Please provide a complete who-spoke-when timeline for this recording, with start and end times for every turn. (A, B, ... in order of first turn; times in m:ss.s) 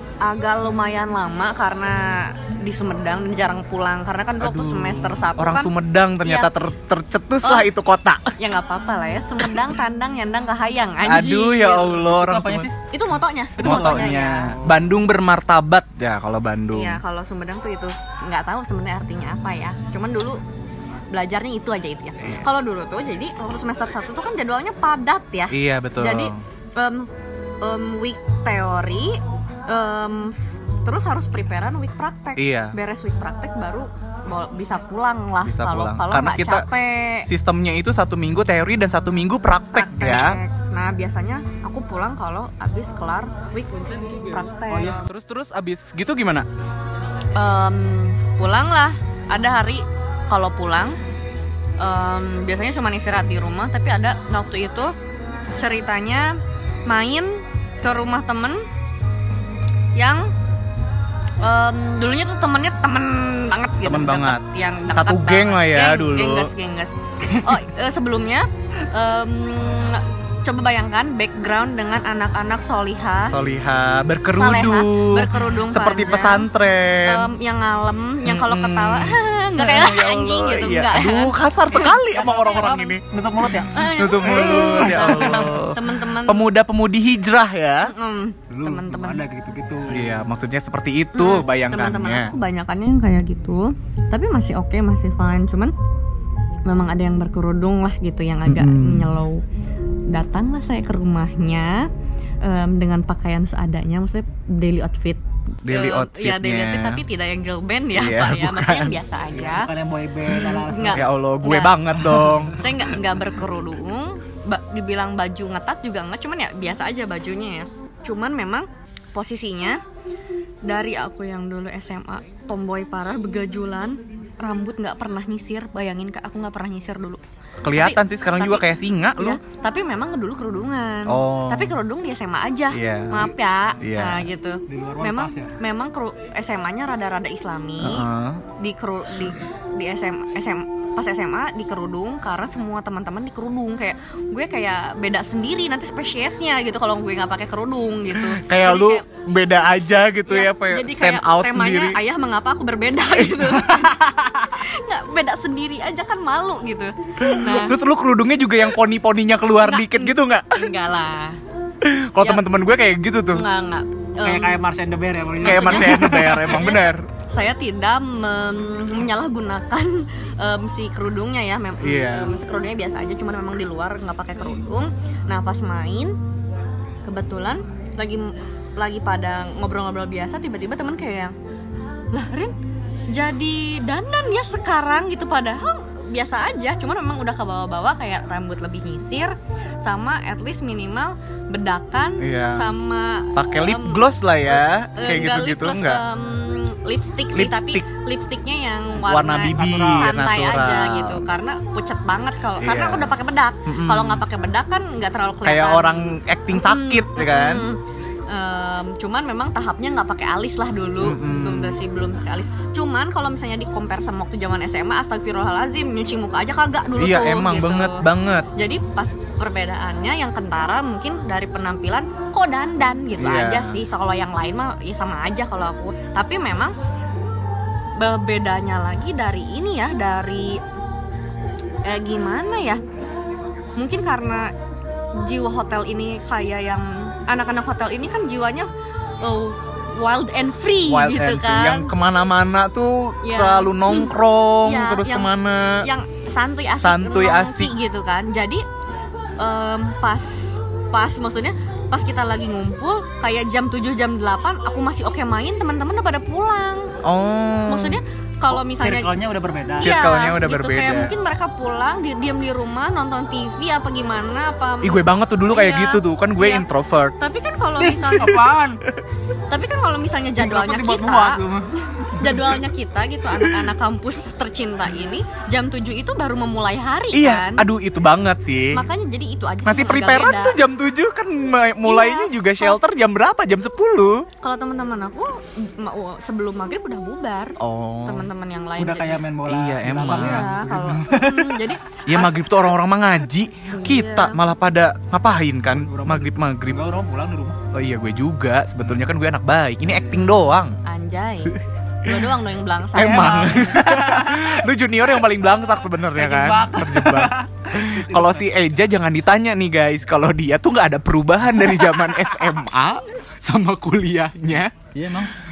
0:00.2-0:06.5 A
0:04.4-0:08.4 B
0:07.4-0:07.7 A
0:08.4-0:12.0 A
0:11.0-0:12.7 B
0:11.9-0:12.7 C
0:12.9-0:14.5 A
0:13.6-0:14.2 C
0:13.6-0:17.0 B
0:16.7-0:20.4 A
0:21.1-0:27.1 A
0:25.5-0:26.4 B
0:27.6-0:37.3 A
0:32.4-0:32.7 B
0:35.4-0:36.6 B
0:37.2-0:40.4 B
0:39.7-0:45.0 A
0:43.8-0:45.0 C
0:45.1-0:46.5 B
0:47.4-0:51.0 A
0:51.8-0:54.9 A
0:55.6-0:58.6 A
1:00.0-1:00.3 A
1:01.4-1:13.4 A
1:03.8-1:06.5 B
1:13.3-1:17.3 B
1:14.4-1:16.5 A
1:17.0-1:23.0 A
1:18.2-1:23.0 B
1:22.2-1:25.5 C
1:23.7-1:26.4 A
1:23.8-1:27.9 B
1:27.8-1:29.2 A
1:28.5-1:30.2 C
1:29.9-1:32.3 B
1:31.1-1:35.7 A
1:36.6-1:39.4 A
1:38.4-1:39.1 B
1:40.1-1:41.9 A
1:42.4-1:49.7 A
1:45.6-1:47.0 B
1:47.9-1:49.0 B
1:49.3-1:51.0 C
1:50.6-1:51.8 A
1:50.9-1:52.7 B
1:52.5-1:59.8 A
2:00.6-2:07.2 A
2:07.6-2:09.4 B
2:07.7-2:29.0 A
2:11.0-2:11.8 B
2:12.7-2:14.2 B
2:14.7-2:15.5 C
2:17.8-2:18.4 B
2:28.1-2:32.0 B
2:30.2-2:37.8 A
2:33.1-2:33.9 B
2:37.2-2:40.7 B
2:39.6-2:41.4 A
2:41.8-2:43.4 B
2:43.3-2:44.6 A
2:44.2-2:46.7 C
2:45.4-2:47.0 B
2:45.4-2:56.1 A
2:51.8-2:52.3 B
2:57.0-3:01.3 A
3:02.1-3:02.5 A
3:03.1-3:46.7 A
3:12.2-3:12.7 B
3:13.3-3:16.0 B
3:17.3-3:17.8 B
3:19.0-3:21.3 B
3:22.6-3:23.1 B
3:23.6-3:24.2 B
3:25.4-3:27.7 B
3:31.0-3:31.8 B
3:37.0-3:38.5 B
3:43.2-3:43.8 B
3:48.0-3:50.6 A
3:51.8-3:52.8 A
3:53.8-3:54.5 A
3:55.2-3:58.7 A
3:59.2-4:01.9 A
4:00.9-4:05.9 B
4:03.2-4:04.1 A
4:04.6-4:08.6 A
4:06.8-4:07.7 B
4:09.4-4:16.9 A
4:17.0-4:18.0 B
4:17.7-4:19.1 A
4:18.5-4:20.0 C
4:19.8-4:21.1 B
4:19.8-4:26.6 A
4:24.8-4:27.2 B
4:27.2-4:28.4 A
4:27.8-4:28.8 C
4:29.5-4:31.4 A
4:30.4-4:32.4 C
4:32.1-4:37.6 A
4:37.1-4:38.8 B
4:38.7-4:40.6 A
4:39.6-4:44.3 B
4:41.8-4:42.8 A
4:44.4-4:49.2 A
4:47.6-4:48.3 B
4:48.8-4:51.7 C
4:49.5-4:50.5 B
4:49.8-4:52.4 A
4:52.1-4:56.8 B
4:53.7-4:54.4 A
4:55.8-4:57.6 C
4:57.7-5:00.8 B
5:00.8-5:03.7 A
5:02.9-5:14.7 B
5:03.0-5:04.6 C
5:06.1-5:08.5 C
5:14.9-5:15.3 C